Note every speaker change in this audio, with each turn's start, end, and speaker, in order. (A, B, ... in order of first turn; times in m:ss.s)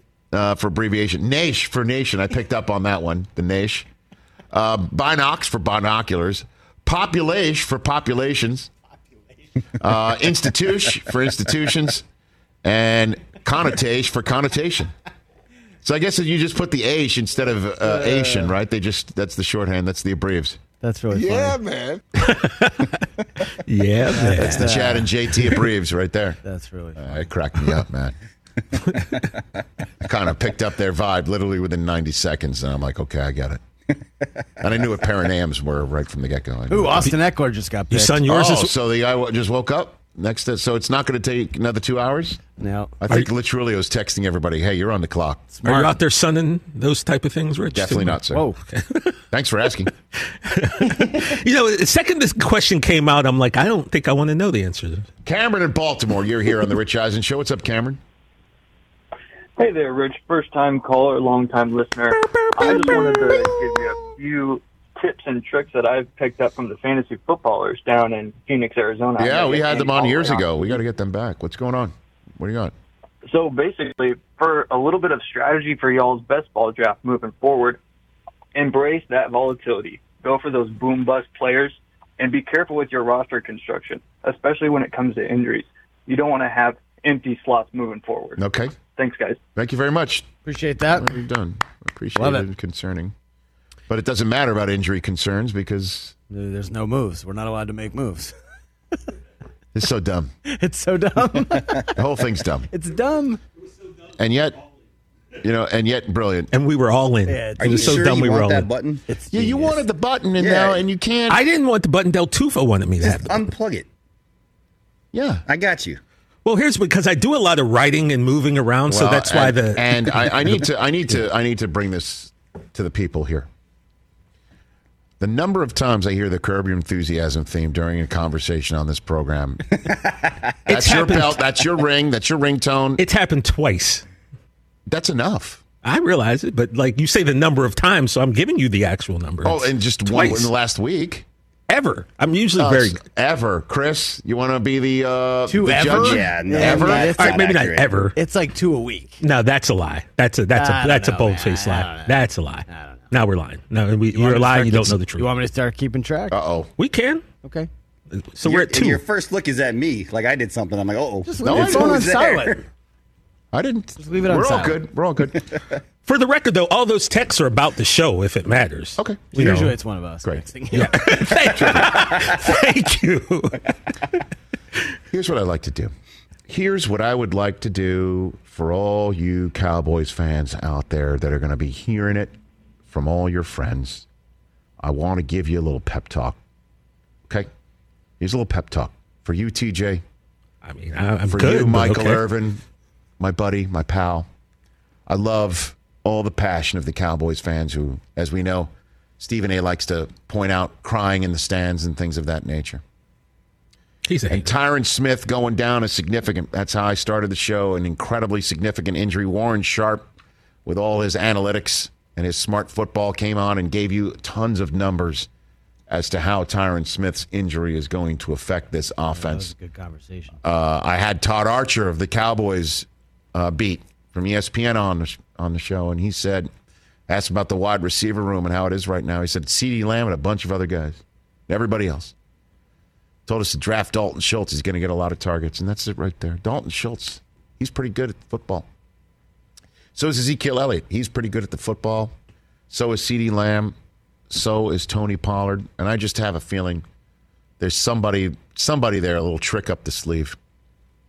0:00.3-0:03.9 A
0:04.5-0:08.7 A
0:09.8-0:12.0 A
0:12.6-0:14.9 A
0:15.8-0:20.6 A
0:18.0-0:18.5 B
0:20.8-0:21.6 B
0:21.2-0:22.4 A
0:22.2-0:22.9 C
0:23.6-0:24.8 C
0:24.1-0:25.1 B
0:24.3-0:26.4 A
0:26.4-0:27.2 B
0:27.0-0:28.2 A
0:30.0-0:33.6 A
0:34.6-0:37.0 A
0:36.7-0:38.2 B
0:37.9-0:38.7 C
0:38.2-0:42.4 A
0:42.6-0:43.0 B
0:43.0-0:45.5 A
0:45.6-0:45.9 B
0:45.6-0:49.2 C
0:47.7-0:48.5 A
0:48.3-0:48.6 B
0:49.3-0:49.9 A
0:50.4-0:55.1 C
0:55.2-0:58.0 A
0:59.6-1:10.6 D
1:09.2-1:12.7 A
1:13.3-1:17.8 D
1:18.6-1:29.4 D
1:28.4-1:28.7 A
1:29.6-1:30.3 A
1:30.4-1:31.1 B
1:31.0-1:33.1 A
1:32.2-1:32.5 B
1:33.9-1:36.2 A
1:36.3-1:38.3 B
1:39.8-1:40.3 A
1:40.5-1:42.0 B
1:42.0-1:42.7 A
1:42.7-1:43.4 B
1:44.2-1:44.6 A
1:45.4-1:46.5 A
1:46.5-1:48.7 C
1:47.3-1:48.1 B
1:47.6-1:49.0 E
1:49.1-1:49.8 B
1:49.3-1:51.4 A
1:50.4-1:50.8 E
1:51.3-1:53.5 C
1:53.0-1:53.9 E
1:55.1-1:55.4 A
1:55.5-1:56.0 E
1:56.4-2:00.6 C
1:58.9-2:03.5 A
2:05.2-2:09.9 A
2:10.7-2:11.5 C
2:10.7-2:13.0 A
2:13.0-2:14.0 C
2:14.9-2:15.6 A
2:15.8-2:20.5 C
2:19.4-2:21.2 A
2:21.7-2:23.0 C
2:22.6-2:27.1 A
2:25.5-2:27.4 B
2:25.8-2:28.1 E
2:27.1-2:28.2 C
2:28.2-2:29.2 B
2:29.2-2:35.3 C
2:30.5-2:33.1 B
2:34.1-2:36.4 B
2:36.3-2:36.7 A
2:36.8-2:37.3 C
2:37.4-2:37.7 B
2:38.1-2:39.0 C
2:38.4-2:42.6 E
2:41.2-2:42.6 B
2:41.4-2:42.1 A
2:43.5-2:45.5 A
2:44.0-2:44.8 B
2:46.1-2:49.8 C
2:49.0-2:49.4 A
2:49.3-2:51.3 B
2:50.7-2:53.7 C
2:51.6-2:52.1 A
2:55.1-2:55.9 A
2:56.5-3:02.3 A
3:02.9-3:04.1 A
3:04.8-3:06.4 A
3:08.2-3:10.0 A
3:10.6-3:12.2 C
3:11.3-3:12.6 A
3:13.2-3:14.3 A
3:15.1-3:22.8 A
3:24.1-3:24.4 C
3:24.3-3:30.1 A
3:30.6-3:35.3 A
3:35.9-3:39.5 A
3:39.1-3:40.4 B
3:40.4-3:46.5 A
3:47.1-3:52.1 A
3:53.3-3:58.7 A
4:00.0-4:02.1 A
4:02.7-4:03.8 A
4:04.3-4:06.8 A
4:07.6-4:10.4 A